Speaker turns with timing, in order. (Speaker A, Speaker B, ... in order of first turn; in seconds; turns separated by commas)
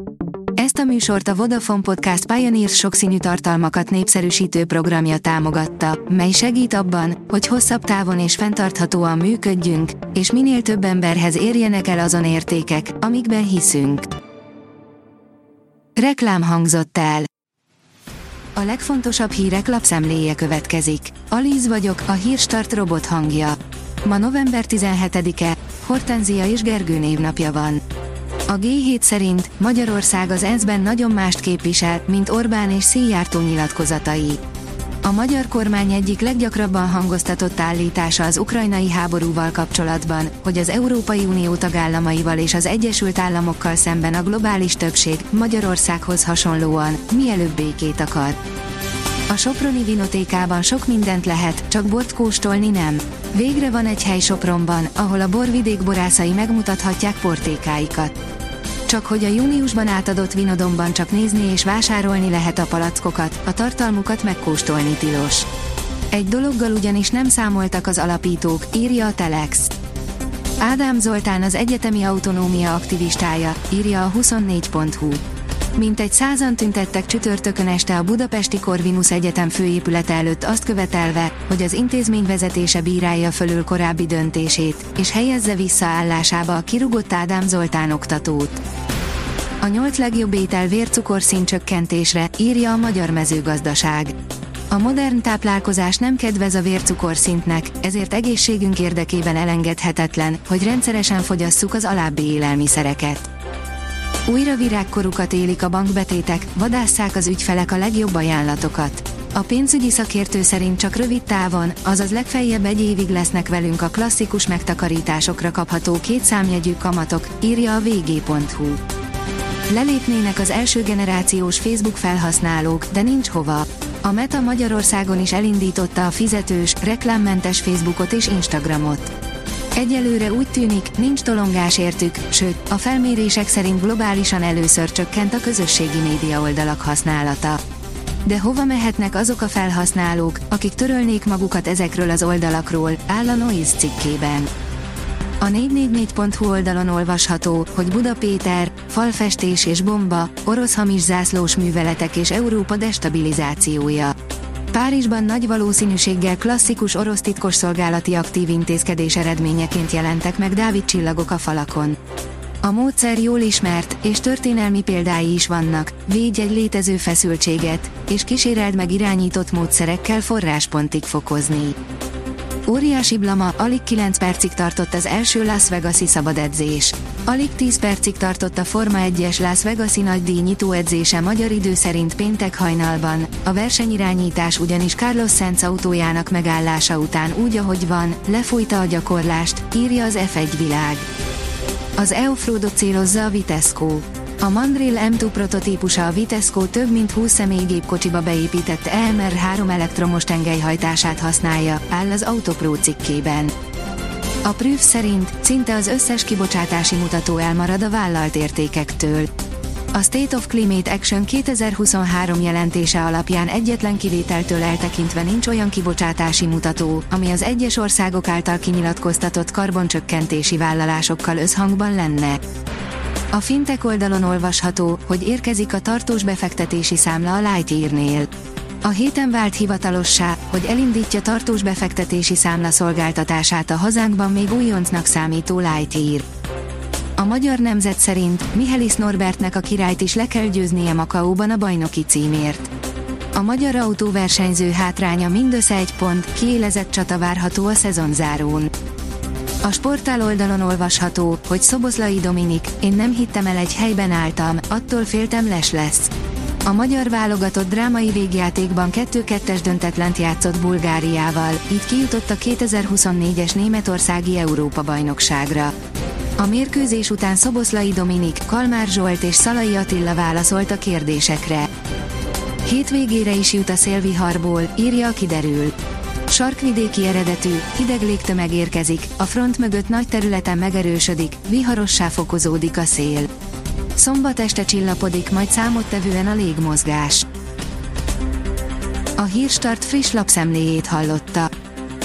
Speaker A: 0.6-14.1, Speaker A: 15.9-17.3, Speaker A: 18.5-27.8, Speaker A: 28.5-34.4, Speaker A: 35.0-48.4, Speaker A: 49.3-58.1, Speaker A: 58.9-65.5, Speaker A: 66.1-69.7, Speaker A: 70.6-75.2, Speaker A: 75.7-88.6, Speaker A: 89.6-94.2, Speaker A: 94.7-103.3, Speaker A: 104.2-118.8, Speaker A: 119.7-129.1, Speaker A: 129.7-137.6, Speaker A: 138.2-144.5, Speaker A: 145.4-154.1, Speaker A: 154.7-162.0, Speaker A: 162.6-171.8, Speaker A: 172.7-191.1, Speaker A: 192.0-203.5, Speaker A: 204.4-209.3, Speaker A: 209.9-222.4, Speaker A: 223.3-228.3, Speaker A: 228.8-236.2, Speaker A: 237.2-242.7, Speaker A: 243.3-248.7, Speaker A: 249.6-256.1, Speaker A: 256.6-265.7, Speaker A: 266.4-271.7, Speaker A: 272.6-275.7, Speaker A: 276.3-283.3, Speaker A: 283.9-287.3, Speaker A: 289.2-291.5